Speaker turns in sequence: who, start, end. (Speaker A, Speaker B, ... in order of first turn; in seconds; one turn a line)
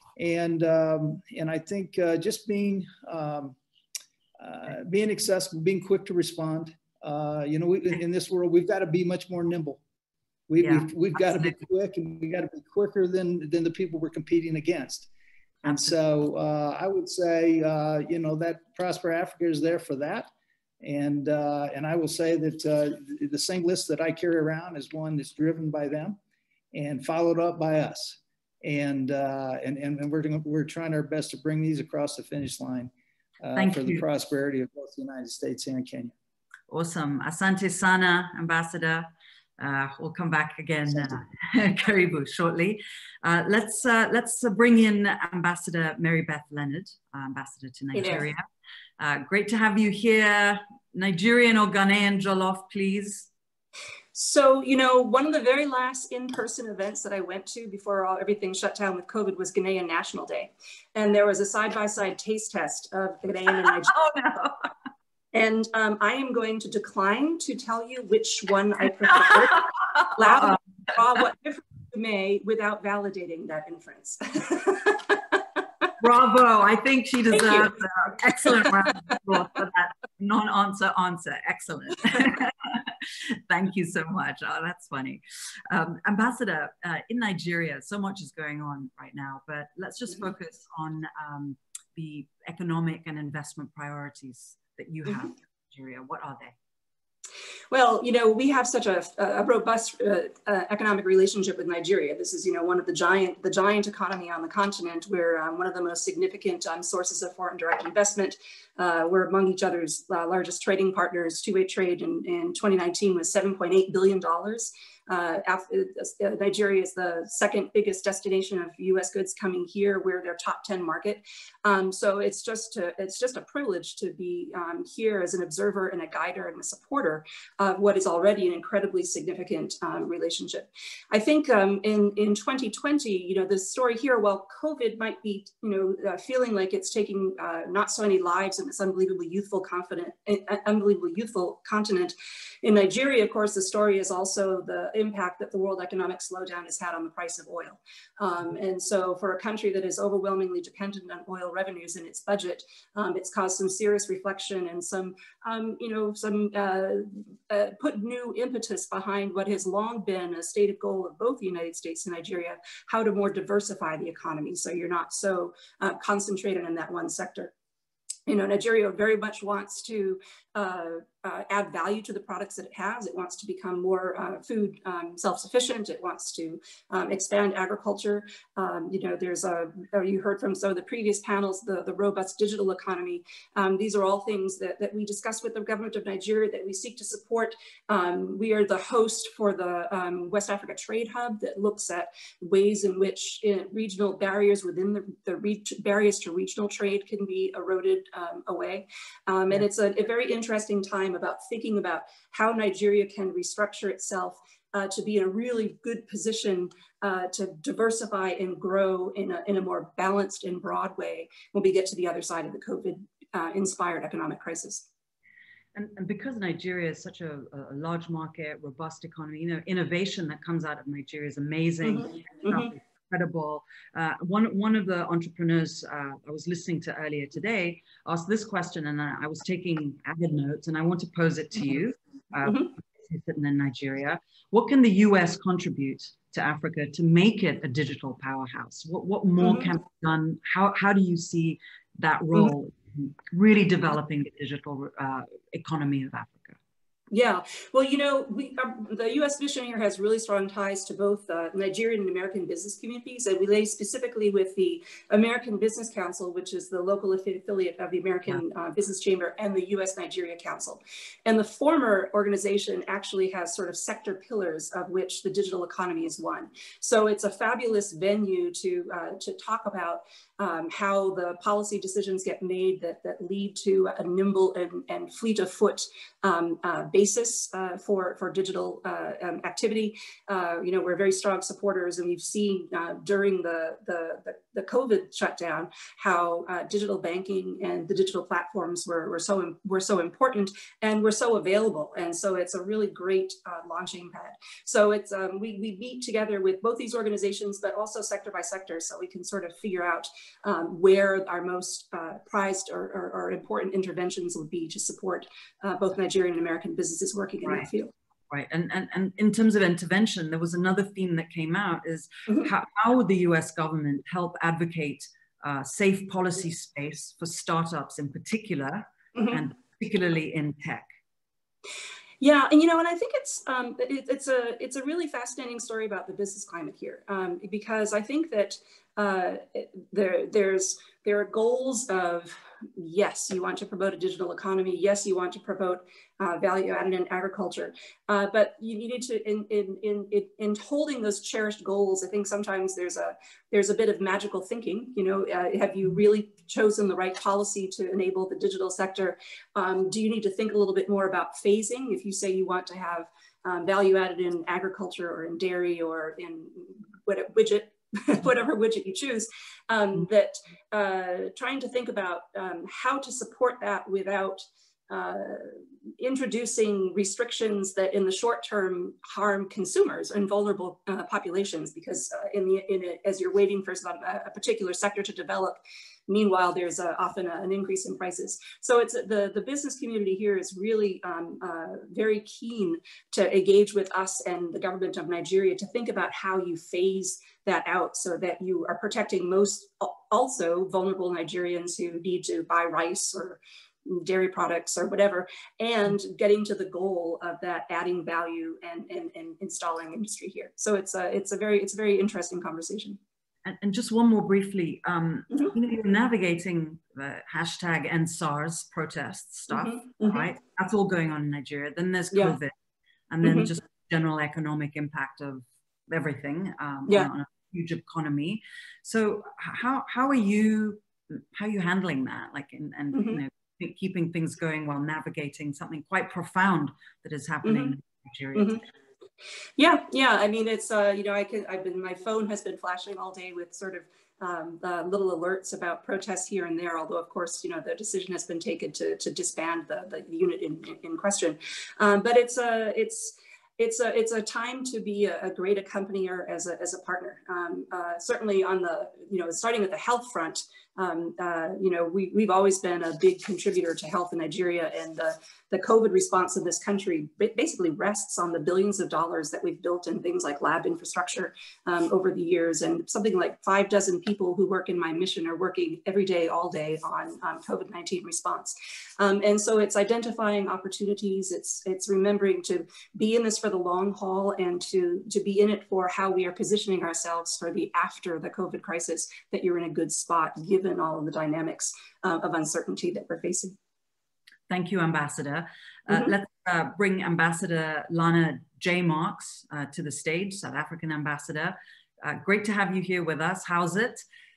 Speaker A: 0.2-3.5
Speaker A: 4.4-9.8
Speaker A: 10.5-15.1
Speaker B: 10.6-11.5
Speaker B: 15.6-15.9
Speaker A: 15.6-20.3
Speaker A: 20.8-26.2
Speaker A: 26.7-36.1
Speaker B: 33.5-34.0
Speaker B: 36.7-48.4
Speaker C: 47.9-48.3
Speaker B: 49.0-53.3
Speaker C: 54.1-63.9
Speaker B: 63.8-64.7
Speaker C: 65.3-75.2
Speaker B: 70.0-70.4
Speaker B: 76.0-96.5
Speaker C: 77.3-77.7
Speaker C: 78.4-78.7
Speaker C: 97.7-167.5
Speaker C: 168.3-214.8
Speaker B: 215.7-246.6
Speaker C: 221.8-222.7
Speaker C: 232.4-232.7
Speaker C: 239.4-239.7
Speaker C: 247.1-307.9
Speaker B: 308.3-320.9
Speaker C: 319.1-319.4
Speaker C: 322.2-403.0
Speaker B: 403.4-412.5
Speaker C: 409.5-410.3
Speaker C: 412.1-412.4
Speaker B: 413.1-428.6
Speaker C: 413.2-413.5
Speaker C: 422.9-423.2
Speaker C: 427.4-427.8
Speaker C: 428.3-428.6
Speaker C: 429.6-483.6
Speaker B: 484.5-494.0